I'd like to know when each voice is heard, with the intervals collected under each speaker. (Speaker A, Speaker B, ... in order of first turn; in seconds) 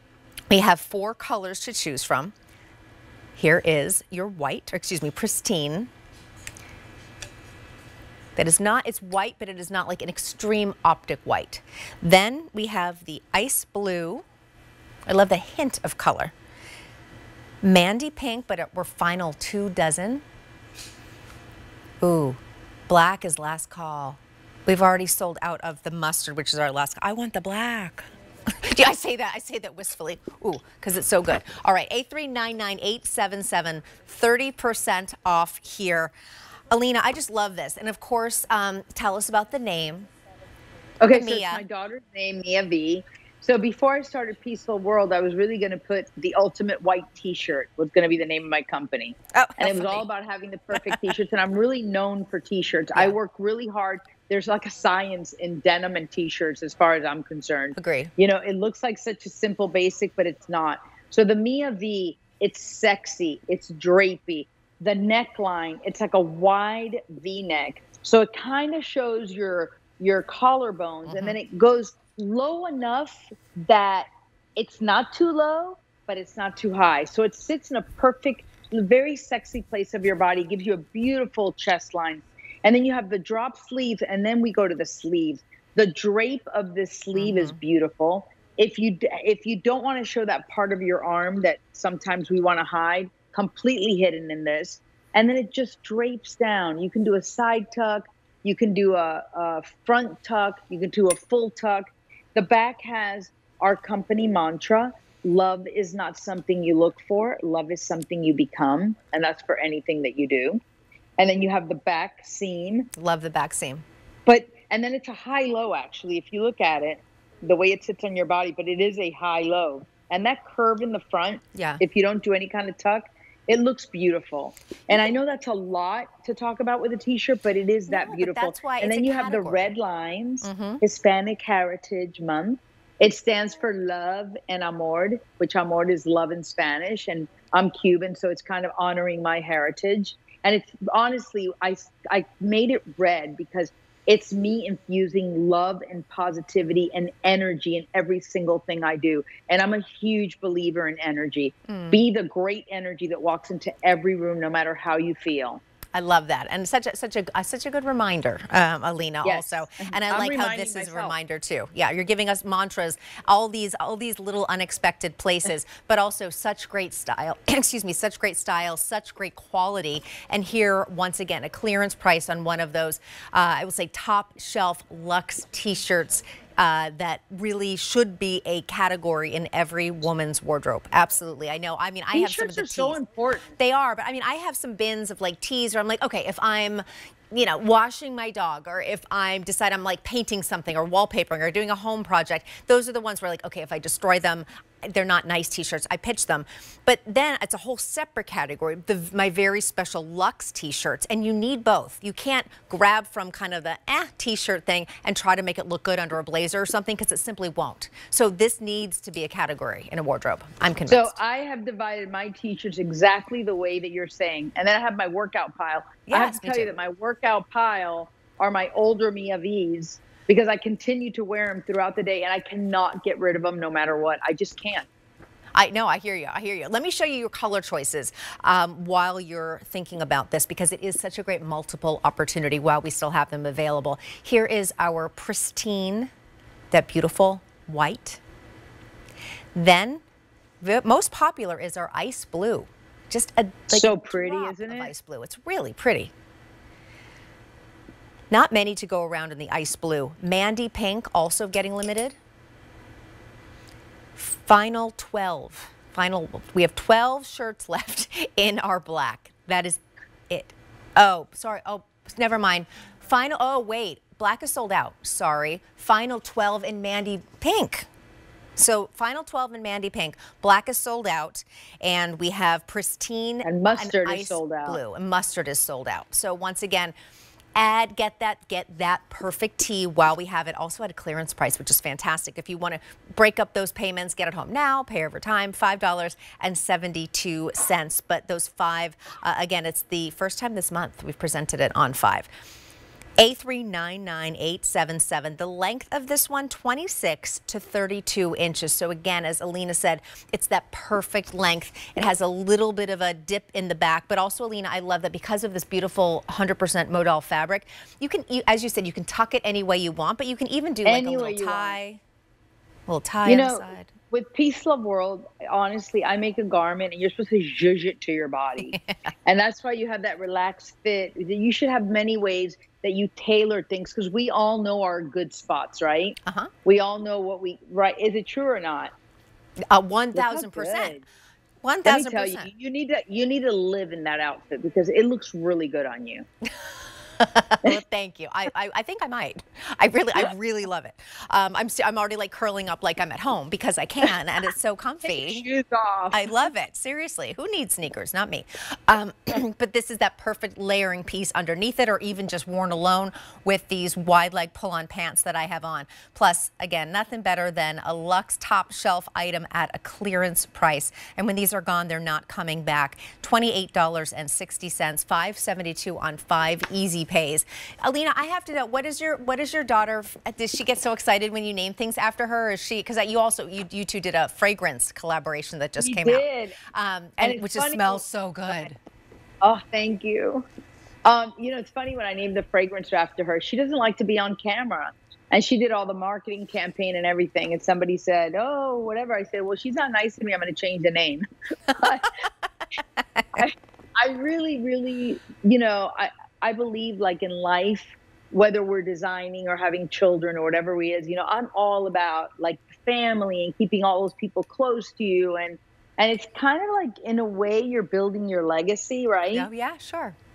Speaker A: 0.5-2.3, 3.4-5.9, 8.3-14.2, 15.1-16.3, 17.6-20.2, 22.0-28.0, 28.6-36.1, 36.7-40.1, 41.1-41.6, 49.3-50.0, 57.7-58.1, 71.1-71.4, 87.1-87.6, 112.9-113.8, 121.5-121.8, 127.9-129.7, 130.4-130.8, 151.7-152.0, 155.9-183.0, 183.6-211.2, 216.1-216.7, 225.5-236.1, 236.7-238.2, 239.5-240.0, 240.6-246.1, 248.3-252.2, 254.2-267.9, 268.6-276.9, 277.6-292.3, 293.2-312.0, 312.9-313.9, 318.6-318.9, 326.2-326.5, 329.7-331.0, 331.6-332.5, 337.2-345.4, 346.1-378.8, 392.8-393.4, 409.3-410.2
Speaker B: 41.0-110.6, 111.2-112.9, 114.2-155.6, 159.2-161.2, 182.1-183.5, 210.9-224.9, 243.7-244.9, 273.4-274.8, 310.8-311.8, 313.2-328.9, 330.1-331.0, 331.8-336.2, 345.0-346.3, 375.8-376.6, 377.2-378.0, 379.4-380.4, 381.0-392.1, 393.4-409.5